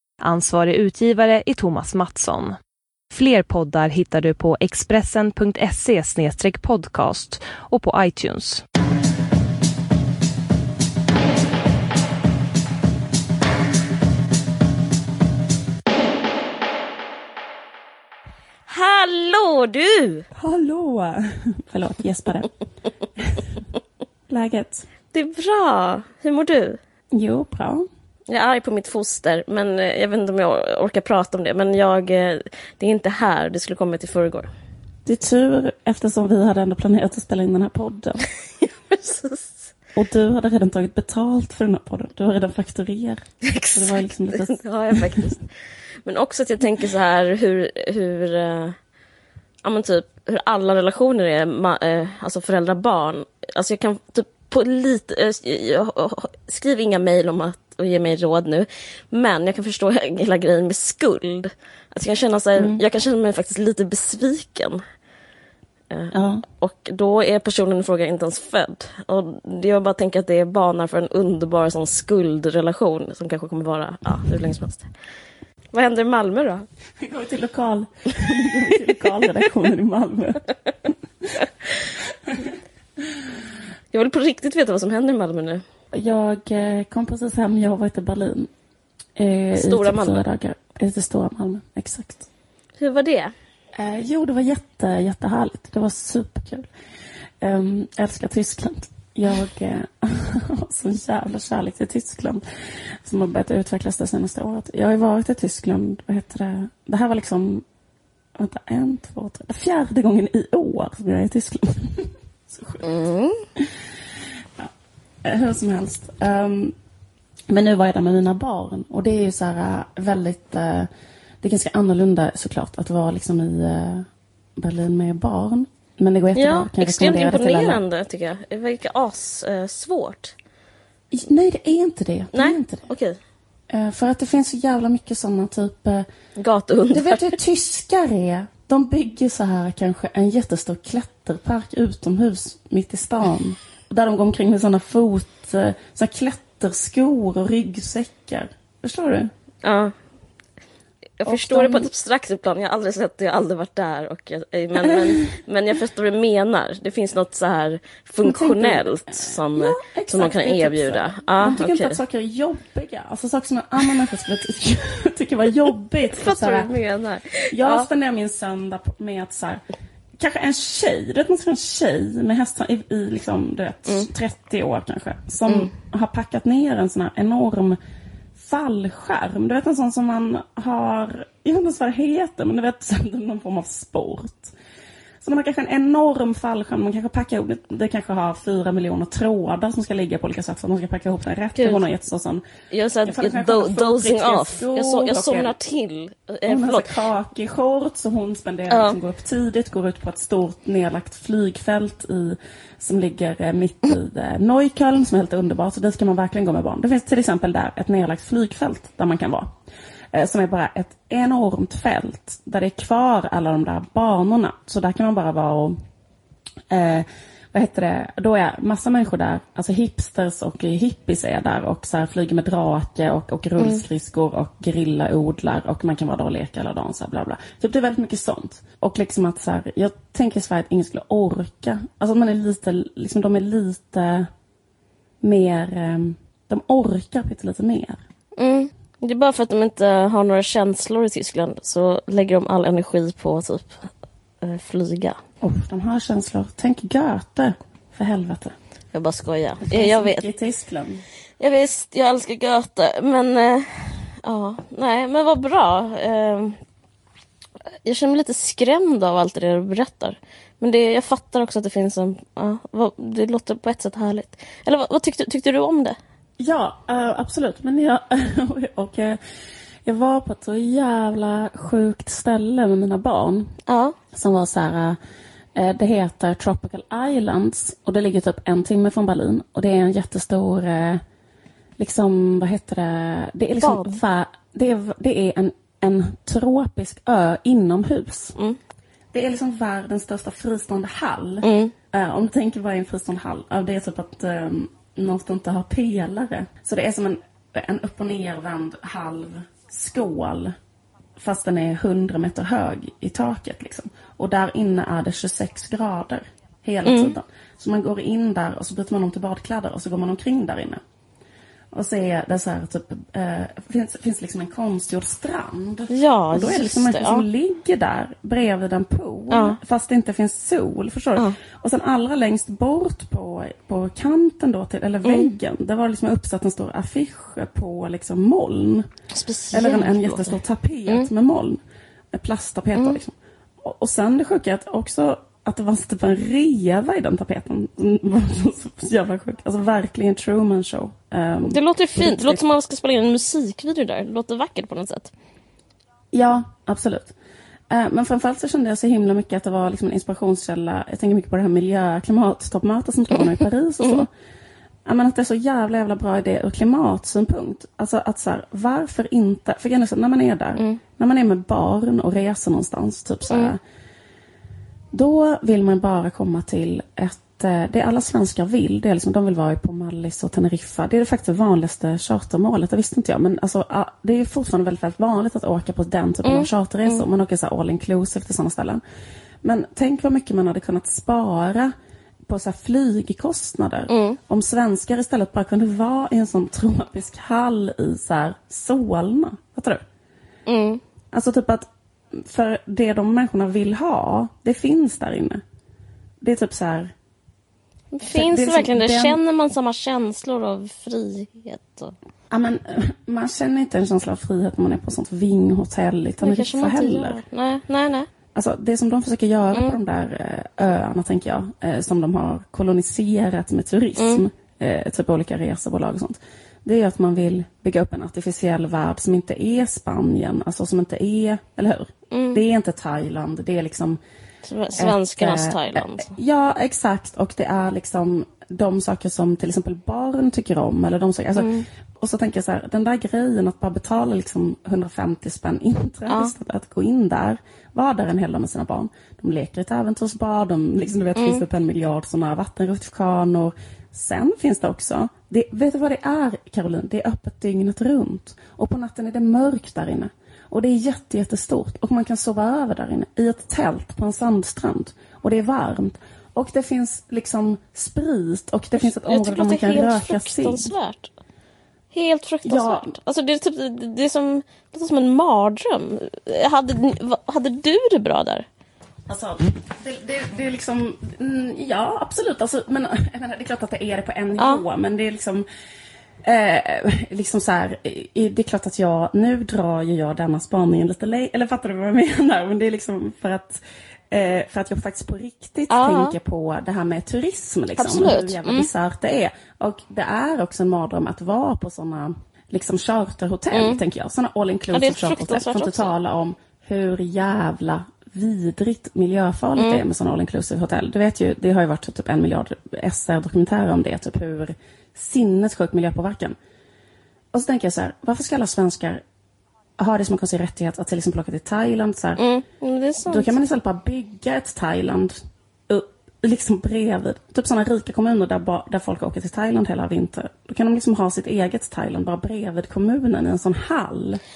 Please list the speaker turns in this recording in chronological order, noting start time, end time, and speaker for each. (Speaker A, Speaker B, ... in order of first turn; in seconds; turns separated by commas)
Speaker A: 0.2-2.5, Speaker A: 3.1-8.6, Speaker B: 18.7-20.3, Speaker C: 20.4-22.5, Speaker C: 23.2-23.5, Speaker C: 24.3-24.8, Speaker B: 25.1-26.8, Speaker C: 27.1-27.8, Speaker B: 28.3-34.5, Speaker C: 35.0-38.3, Speaker B: 38.7-39.7, Speaker C: 39.9-45.4, Speaker B: 43.4-45.5, Speaker B: 46.0-48.8, Speaker B: 49.6-64.8, Speaker C: 62.6-62.8, Speaker B: 65.9-74.9, Speaker C: 66.1-66.4, Speaker B: 75.7-76.7, Speaker C: 77.0-81.4, Speaker B: 83.9-85.6, Speaker C: 85.9-88.5, Speaker C: 89.2-92.3, Speaker B: 89.5-90.2, Speaker B: 92.8-93.3, Speaker C: 93.8-96.7, Speaker C: 97.4-102.4, Speaker C: 103.0-107.6, Speaker C: 108.3-112.8, Speaker B: 112.8-113.4, Speaker C: 115.2-116.7, Speaker C: 117.5-120.9, Speaker C: 121.4-127.8, Speaker B: 126.3-130.3, Speaker C: 131.1-132.8, Speaker B: 132.3-133.2, Speaker C: 133.7-136.1, Speaker B: 136.4-137.4, Speaker C: 136.9-149.3, Speaker B: 149.6-149.9, Speaker B: 151.2-162.0, Speaker C: 151.2-151.9, Speaker C: 154.8-155.2, Speaker C: 158.2-166.7, Speaker B: 166.1-167.9, Speaker C: 167.5-169.6, Speaker C: 170.2-177.8, Speaker C: 178.3-184.5, Speaker C: 185.2-192.4, Speaker B: 191.6-191.8, Speaker B: 192.7-196.9, Speaker C: 193.0-195.5, Speaker C: 196.4-209.5, Speaker B: 198.7-199.0, Speaker C: 210.1-215.8, Speaker C: 216.7-234.3, Speaker B: 223.6-223.8, Speaker C: 235.2-238.0, Speaker B: 238.4-243.9, Speaker B: 244.4-245.2, Speaker C: 245.4-248.5, Speaker B: 248.9-250.2, Speaker C: 249.6-251.0, Speaker B: 251.4-256.6, Speaker B: 257.8-266.0, Speaker C: 266.4-269.2, Speaker C: 269.8-273.5, Speaker B: 273.7-274.0, Speaker C: 274.1-275.0, Speaker C: 275.5-281.0, Speaker C: 281.8-288.3, Speaker B: 283.6-284.0, Speaker C: 289.1-300.5, Speaker B: 291.4-291.7, Speaker C: 301.2-310.8, Speaker B: 306.8-307.2, Speaker C: 311.7-328.9, Speaker B: 315.9-317.2, Speaker B: 319.3-319.6, Speaker B: 325.0-325.3, Speaker B: 329.1-330.3, Speaker C: 329.5-331.6, Speaker C: 332.1-342.4, Speaker B: 341.4-345.1, Speaker C: 346.1-347.1, Speaker C: 347.7-354.1, Speaker C: 354.8-363.6, Speaker C: 364.9-378.8, Speaker B: 376.2-377.0, Speaker C: 379.4-381.7, Speaker C: 382.2-389.8, Speaker B: 383.9-384.2, Speaker B: 390.5-390.8, Speaker C: 391.1-395.4, Speaker C: 396.2-396.9, Speaker B: 397.9-401.9, Speaker C: 398.0-399.2, Speaker C: 402.3-407.2, Speaker B: 406.2-408.1, Speaker C: 408.3-424.0, Speaker B: 414.0-414.2, Speaker B: 422.1-422.4, Speaker B: 424.4-426.1, Speaker C: 424.8-460.7, Speaker B: 431.4-431.7, Speaker B: 436.1-436.3, Speaker B: 441.1-441.4, Speaker B: 458.8-461.1, Speaker B: 461.9-468.4, Speaker C: 462.4-462.9, Speaker C: 469.1-475.4, Speaker B: 474.4-474.6, Speaker C: 476.2-506.4, Speaker B: 485.7-486.1, Speaker B: 487.8-488.7, Speaker B: 493.5-493.8, Speaker B: 494.7-495.9, Speaker B: 499.6-499.8, Speaker C: 507.3-509.0, Speaker C: 509.8-512.2, Speaker B: 512.2-513.4, Speaker C: 513.0-515.2, Speaker C: 515.7-524.2